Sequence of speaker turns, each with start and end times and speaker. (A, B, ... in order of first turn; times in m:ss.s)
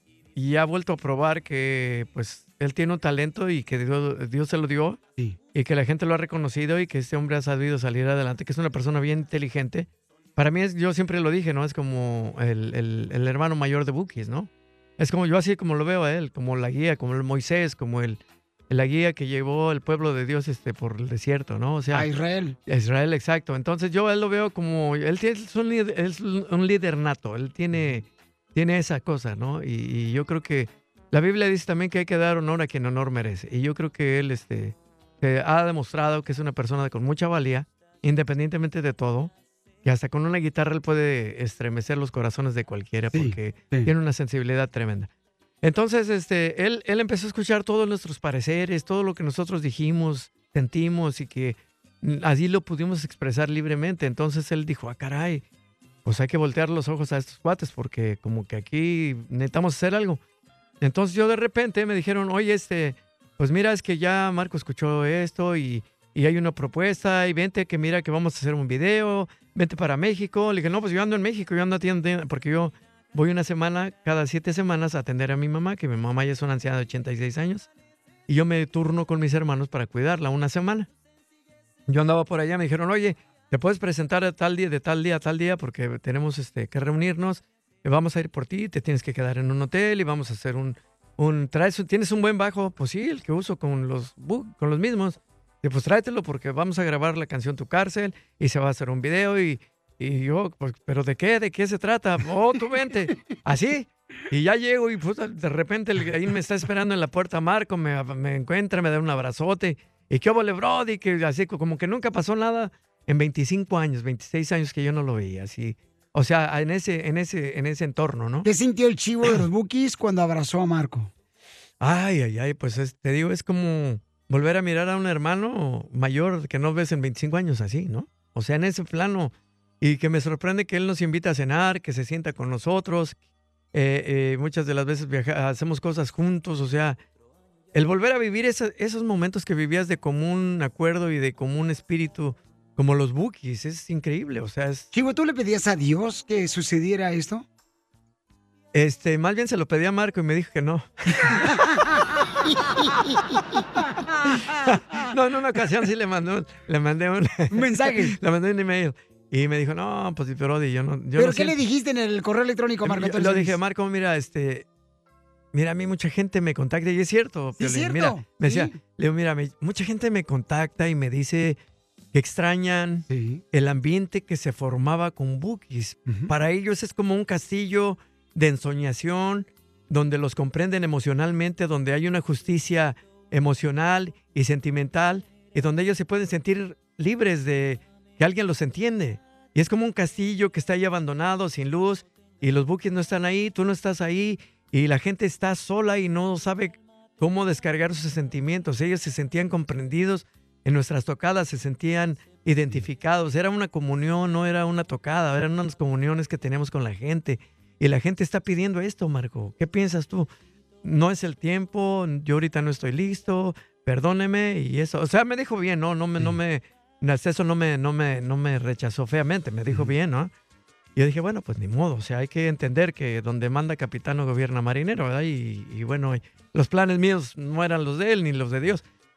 0:00.4-0:05.0 A
0:05.5-0:22.1 A
0:21.9-0:22.6 B
0:22.7-0:28.0 A
0:28.6-0:39.3 A
0:39.8-0:45.1 A
0:43.1-0:43.9 B
0:45.6-0:55.4 A
0:56.0-1:00.2 A
1:00.8-1:17.7 A
1:18.3-1:20.9 A
1:21.9-1:58.5 A
1:58.4-2:01.1 B
2:01.8-2:13.2 A
2:13.7-2:17.0 A
2:17.7-2:24.9 A
2:24.9-2:27.4 B
2:28.7-2:30.9 A
2:31.5-2:31.8 B
2:32.5-2:33.4 B
2:34.3-2:34.6 B
2:34.7-2:41.6 A
2:37.5-2:38.2 B
2:41.2-2:43.6 B
2:42.8-2:44.6 A
2:45.5-2:51.6 A
2:47.6-2:48.8 B
2:52.1-3:30.3 A
2:53.1-2:53.4 B
2:56.0-2:56.3 B
3:30.8-3:40.3 A
3:41.0-3:48.8 A